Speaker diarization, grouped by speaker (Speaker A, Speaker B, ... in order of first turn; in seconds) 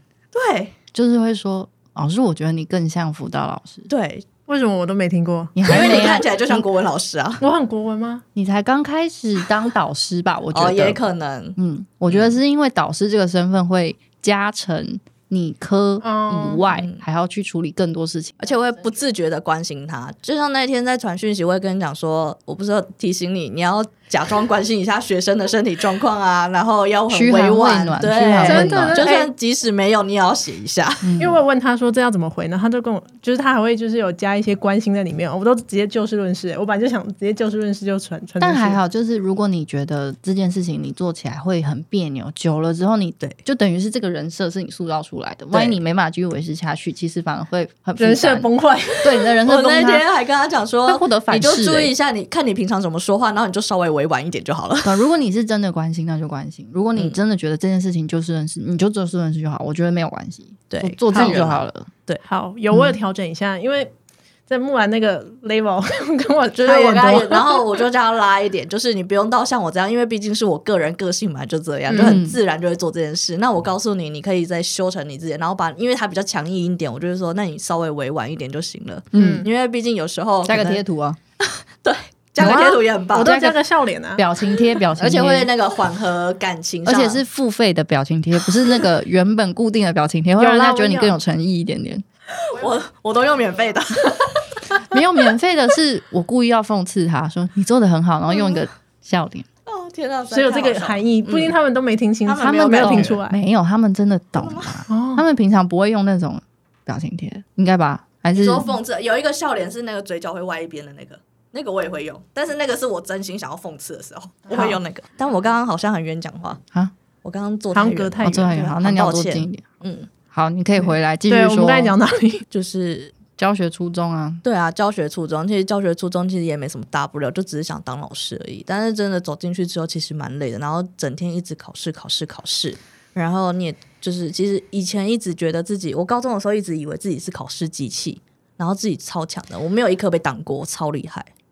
Speaker A: 0.3-0.8, 3.9-4.3, 5.7-7.4, 10.5-11.6, 12.1-12.4, 16.7-17.0, 18.4-31.2, 45.5-45.8, 49.4-55.0, 60.7-62.2, 66.5-80.8, 81.4-83.3, 85.0-87.2, 92.5-94.8, 98.3-98.6, 99.7-101.5, 102.3-103.2, 104.4-104.8, 108.3-116.6, 117.2-120.1, 122.5-123.2, 124.4-141.3
Speaker B: 0.9-3.9, 5.5-6.6, 8.3-11.0, 11.6-18.4, 27.1-29.1, 31.0-31.4, 38.4-48.5, 49.0-50.0, 50.9-51.9, 54.8-61.9, 62.7-63.0, 72.0-72.4, 79.1-79.5, 80.5-81.2, 82.4-83.6, 84.2-85.5, 86.8-92.0, 94.9-99.5, 102.4-108.7, 118.2-119.6, 120.3-122.0, 123.3-124.4
Speaker C: 4.5-5.6, 7.4-8.2, 16.0-16.6, 28.4-29.3, 31.2-38.8, 48.0-49.1, 61.1-61.4, 62.2-63.9, 64.5-67.7, 71.9-72.2, 79.2-79.5, 82.4-84.2, 90.4-91.2, 100.3-103.4, 104.9-105.2, 114.5-114.8, 117.7-118.6, 120.8-122.4